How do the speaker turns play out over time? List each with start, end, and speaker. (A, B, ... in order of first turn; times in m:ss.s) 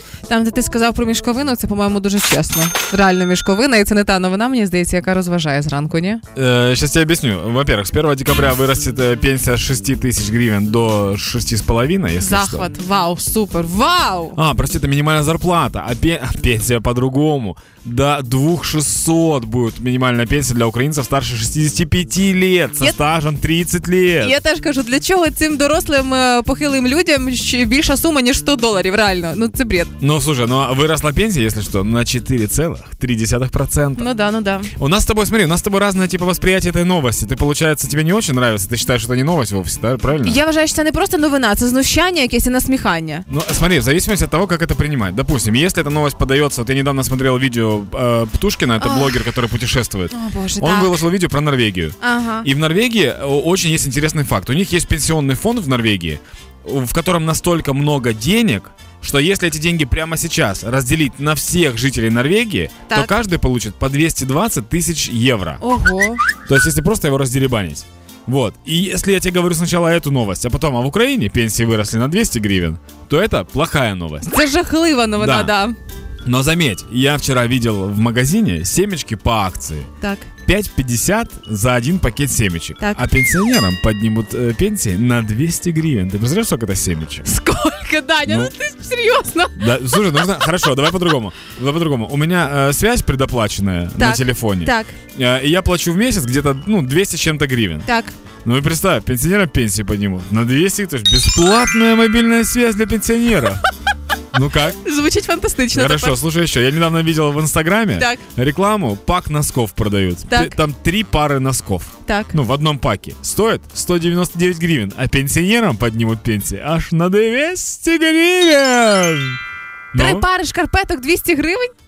0:00.3-0:06.2 A
0:06.3-0:12.7 B
0:12.2-0:14.4 A
0:14.4-0:24.3 B
0:24.2-0:29.9 A
0:30.0-0:34.0 B
0:34.0-0:34.7 A
0:34.8-0:40.4 B
0:40.2-0:43.2 A
0:43.3-1:05.6 B
0:48.8-0:49.2 A
0:50.1-0:51.0 A
0:52.0-0:52.5 A
1:02.9-1:03.1 A
1:05.6-1:06.2 A
1:06.4-1:14.3 B
1:14.2-1:15.8 A
1:15.2-1:15.5 B
1:16.2-1:19.9 B
1:20.0-1:20.3 A
1:20.4-1:27.3 B
1:27.2-1:29.9 A
1:28.2-1:28.5 B
1:29.6-1:37.9 B
1:34.0-1:35.0 A
1:37.8-1:38.1 A
1:38.4-1:43.6 B
1:44.3-1:44.8 B
1:44.7-1:46.2 A
1:45.7-1:59.4 B
1:48.0-1:48.2 A
1:50.3-1:50.6 A
1:52.0-1:52.3 A
1:59.9-2:00.2 B
1:59.9-2:01.7 A